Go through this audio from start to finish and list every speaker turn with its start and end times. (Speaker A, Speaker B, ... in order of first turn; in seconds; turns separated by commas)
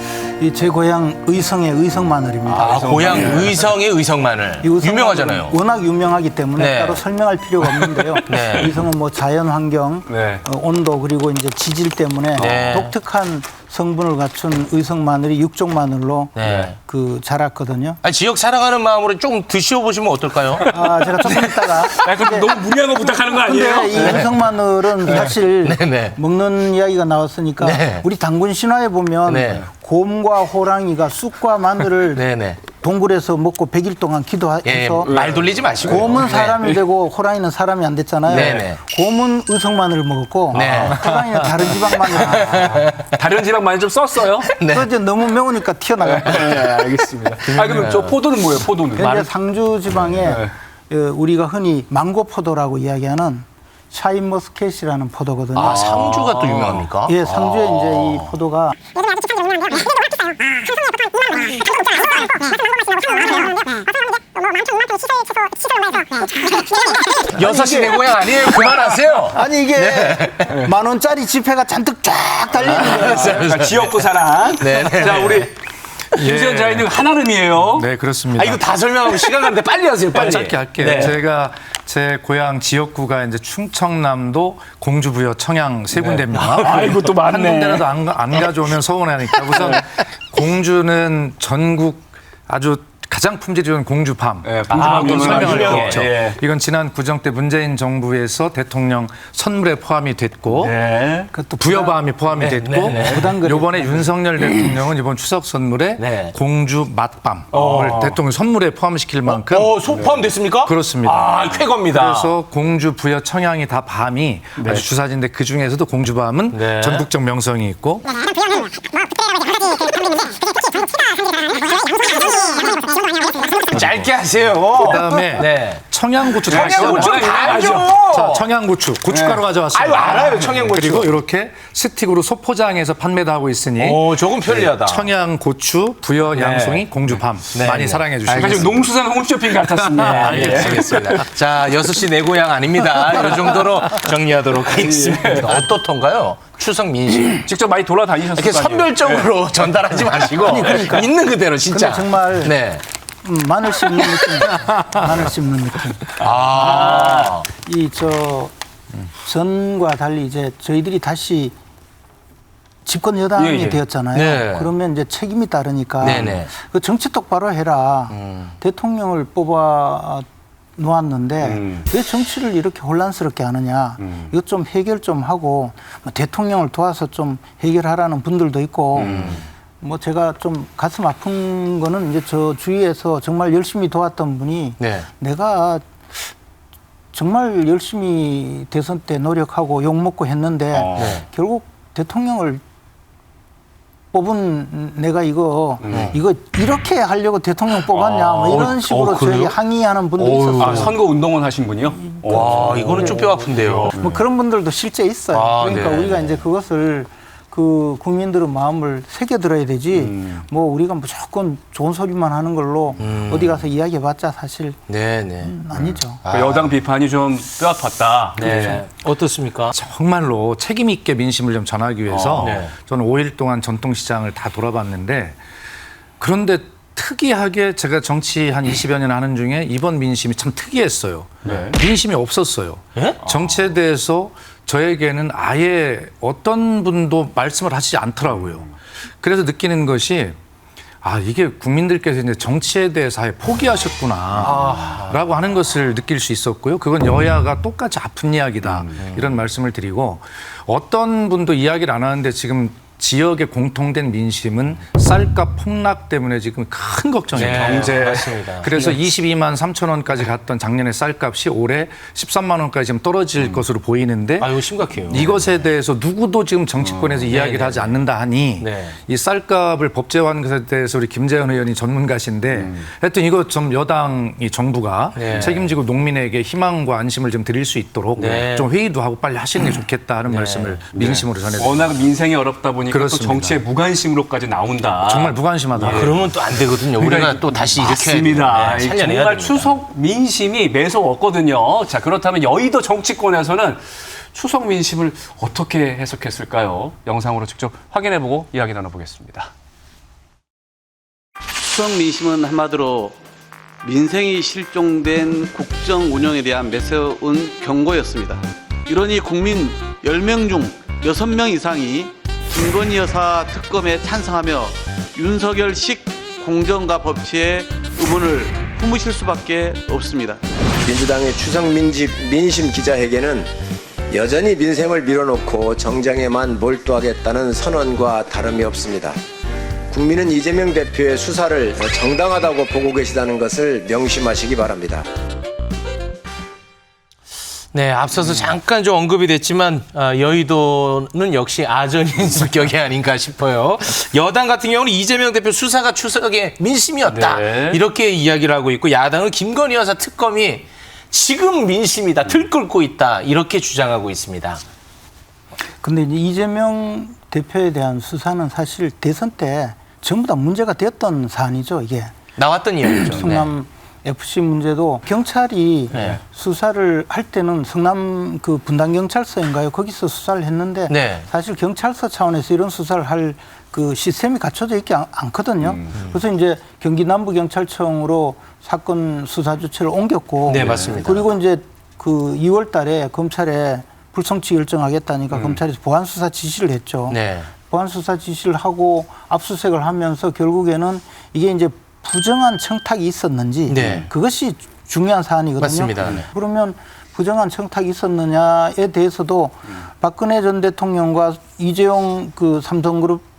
Speaker A: 0.4-3.5, Speaker B: 2.5-5.6, Speaker C: 2.5-3.7, Speaker A: 4.6-18.0, Speaker B: 6.6-7.0, Speaker B: 8.1-8.8, Speaker C: 10.1-10.4, Speaker B: 12.4-12.9, Speaker B: 16.4-16.8, Speaker C: 16.4-16.7, Speaker B: 18.0-20.7, Speaker A: 20.7-22.5, Speaker C: 20.7-24.5, Speaker A: 23.4-35.2, Speaker B: 25.0-26.2, Speaker B: 27.6-28.1, Speaker B: 29.3-29.7, Speaker B: 32.1-32.6, Speaker B: 34.6-36.6, Speaker C: 35.1-36.8, Speaker A: 35.8-42.9, Speaker B: 38.3-38.8, Speaker C: 38.3-38.6, Speaker B: 40.5-41.0, Speaker C: 40.5-41.8, Speaker B: 42.1-43.2, Speaker C: 43.1-44.5, Speaker B: 44.5-44.9, Speaker A: 44.7-46.6, Speaker C: 46.0-49.3, Speaker B: 47.4-48.2, Speaker A: 49.0-55.9, Speaker C: 50.2-50.5, Speaker B: 55.5-58.3, Speaker C: 55.6-56.9, Speaker A: 57.1-58.8, Speaker B: 67.2-70.5, Speaker A: 67.2-68.0, Speaker A: 69.3-73.5, Speaker B: 72.6-74.0, Speaker C: 73.1-75.5, Speaker B: 74.6-75.5, Speaker C: 76.2-77.9, Speaker D: 76.2-76.9, Speaker D: 77.7-78.6, Speaker B: 78.3-81.2, Speaker D: 80.1-100.8, Speaker C: 86.0-87.9, Speaker B: 86.6-86.9, Speaker C: 94.4-96.4, Speaker B: 94.7-96.1, Speaker C: 100.5-101.3, Speaker A: 101.3-102.0, Speaker D: 101.6-109.8, Speaker B: 102.4-103.3, Speaker A: 102.9-104.1, Speaker B: 106.0-106.4, Speaker B: 107.5-108.0, Speaker C: 107.6-108.2, Speaker B: 109.3-112.3, Speaker C: 110.0-110.2, Speaker D: 110.6-118.1, Speaker C: 114.6-114.9, Speaker B: 116.5-117.1, Speaker B: 121.5-128.5, Speaker D: 124.8-127.3, Speaker C: 126.5-128.1, Speaker D: 128.1-138.9, Speaker C: 129.1-129.5, Speaker B: 129.7-131.2, Speaker C: 130.2-130.7, Speaker B: 133.8-135.1, Speaker C: 136.3-137.2, Speaker B: 137.5-138.1, Speaker C: 138.3-141.3, Speaker B: 140.0-147.5, Speaker D: 140.1-140.6, Speaker C: 143.2-143.7, Speaker C: 144.7-145.7, Speaker C: 147.4-149.3, Speaker B: 148.3-152.8, Speaker A: 150.4-151.1, Speaker A: 151.7-152.6, Speaker A: 153.2-158.5, Speaker B: 156.2-157.5, Speaker C: 156.5-157.3, Speaker A: 159.2-161.5, Speaker A: 162.8-170.2, Speaker C: 163.4-163.8, Speaker B: 164.1-164.7, Speaker B: 166.0-166.5, Speaker B: 168.1-168.6, Speaker A: 170.8-185.9, Speaker C: 171.4-171.9, Speaker C: 174.0-174.3, Speaker C: 179.0-179.4, Speaker B: 179.0-179.4, Speaker B: 184.8-185.1, Speaker A: 187.1-192.6, Speaker C: 190.7-191.2, Speaker B: 190.9-191.2, Speaker A: 194.1-200.9, Speaker C: 195.8-196.2, Speaker B: 195.9-196.2, Speaker C: 197.9-199.5, Speaker B: 199.3-199.5, Speaker B: 200.2-200.9, Speaker C: 200.6-204.1, Speaker B: 202.2-204.2, Speaker A: 202.3-203.2, Speaker A: 203.8-214.8, Speaker B: 205.3-206.4, Speaker C: 205.7-206.0, Speaker C: 209.9-210.4, Speaker B: 213.0-213.7, Speaker B: 214.9-215.6, Speaker A: 215.4-216.2, Speaker C: 215.8-218.9, Speaker B: 216.2-216.8, Speaker B: 218.4-219.7, Speaker D: 219.7-225.4, Speaker C: 222.1-222.6, Speaker B: 222.4-222.7, Speaker D: 226.2-238.7, Speaker C: 231.4-231.8, Speaker C: 233.3-233.8, Speaker D: 239.2-240.4, Speaker D: 241.0-264.5, Speaker B: 244.4-245.3, Speaker C: 248.6-248.9, Speaker B: 249.0-249.3, Speaker B: 257.3-259.0, Speaker C: 257.4-258.4, Speaker B: 264.4-265.5, Speaker D: 265.1-281.9, Speaker C: 266.8-267.3, Speaker B: 267.3-268.0, Speaker B: 268.6-269.0, Speaker C: 272.5-272.9, Speaker B: 275.2-275.6, Speaker C: 275.4-275.7, Speaker B: 278.2-278.7, Speaker B: 280.3-280.8, Speaker C: 280.9-299.5, Speaker D: 282.9-283.6, Speaker D: 285.0-286.1, Speaker B: 285.8-289.8, Speaker E: 301.6-303.2, Speaker E: 303.8-320.4, Speaker F: 320.9-323.5, Speaker F: 324.1-329.2, Speaker F: 329.9-335.1, Speaker B: 337.7-354.6, Speaker C: 347.0-347.8, Speaker A: 355.8-362.1, Speaker B: 362.4-363.5, Speaker A: 362.9-403.2, Speaker B: 365.9-366.2, Speaker B: 370.9-371.3, Speaker C: 375.6-375.9, Speaker B: 380.5-381.3, Speaker C: 380.6-380.9, Speaker C: 385.3-385.6, Speaker B: 387.1-387.5, Speaker B: 393.7-394.1, Speaker C: 393.8-394.1, Speaker B: 395.6-396.3